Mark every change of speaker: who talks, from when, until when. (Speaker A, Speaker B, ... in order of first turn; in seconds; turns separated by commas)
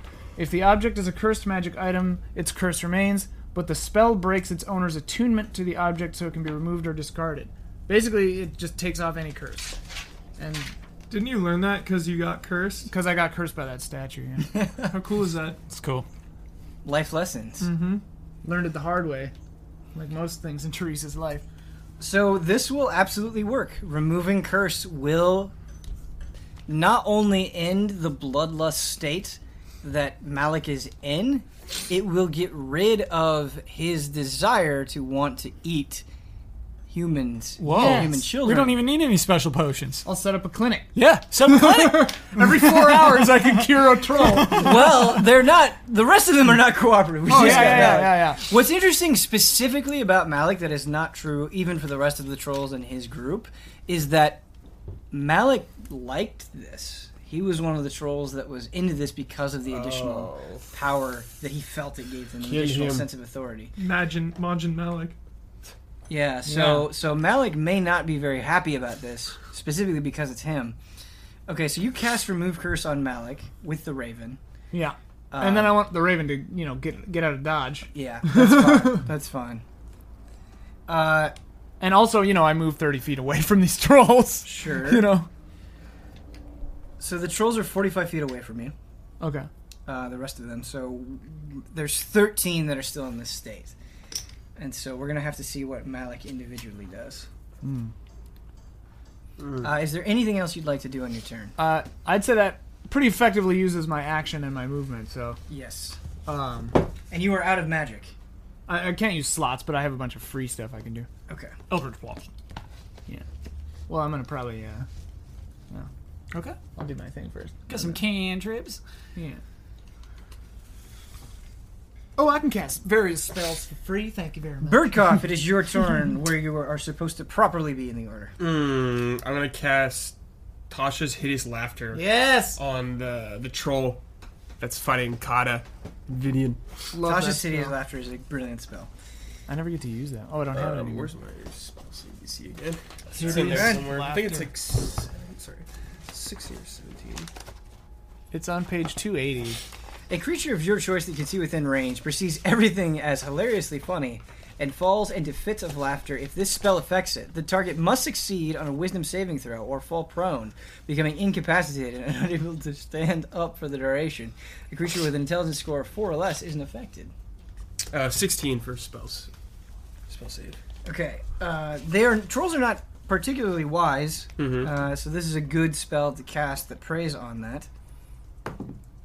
Speaker A: 0.4-9.8, Speaker A: 10.4-10.7, Speaker B: 11.1-12.9, Speaker A: 12.9-14.6, Speaker C: 14.6-14.9, Speaker B: 14.9-15.6, Speaker D: 15.7-16.1, Speaker C: 16.8-17.7, Speaker A: 17.6-19.3, Speaker A: 19.9-21.4, Speaker C: 22.0-25.5, Speaker C: 26.7-36.0, Speaker C: 36.9-38.8, Speaker D: 37.6-40.0, Speaker A: 37.7-38.4, Speaker A: 40.0-45.1, Speaker D: 41.0-43.3, Speaker C: 44.5-54.4, Speaker A: 47.3-48.4, Speaker D: 47.3-48.1, Speaker C: 55.1-63.7, Speaker E: 59.7-60.6, Speaker E: 62.4-63.1, Speaker B: 63.8-65.2, Speaker C: 66.1-70.8, Speaker A: 66.5-66.9, Speaker C: 71.5-74.4, Speaker A: 74.7-79.1, Speaker C: 75.3-75.8, Speaker C: 77.9-79.6, Speaker C: 80.9-81.3, Speaker A: 81.8-85.3, Speaker C: 84.5-85.1, Speaker C: 87.0-88.7, Speaker A: 89.2-89.5, Speaker C: 89.9-93.7, Speaker C: 94.6-97.3, Speaker A: 97.6-97.9, Speaker E: 99.4-99.7, Speaker C: 99.6-101.5, Speaker A: 101.6-105.4, Speaker C: 105.5-106.0, Speaker A: 106.3-106.8, Speaker C: 107.1-108.1, Speaker A: 108.7-111.1, Speaker C: 111.3-111.6, Speaker A: 113.9-114.9, Speaker A: 116.6-118.0, Speaker D: 117.7-118.8, Speaker A: 119.2-119.4, Speaker A: 122.2-125.1, Speaker C: 124.7-128.3, Speaker E: 128.4-130.2, Speaker E: 130.7-132.0, Speaker A: 131.9-132.6, Speaker E: 132.6-134.0, Speaker E: 134.6-136.6, Speaker A: 136.9-137.8, Speaker C: 137.0-138.9, Speaker A: 139.5-141.1, Speaker E: 140.5-147.3, Speaker A: 143.1-144.5, Speaker C: 143.2-143.9, Speaker A: 148.3-149.6, Speaker C: 150.1-167.1, Speaker E: 167.9-169.3, Speaker E: 170.1-170.6, Speaker C: 170.8-177.7, Speaker E: 174.4-174.7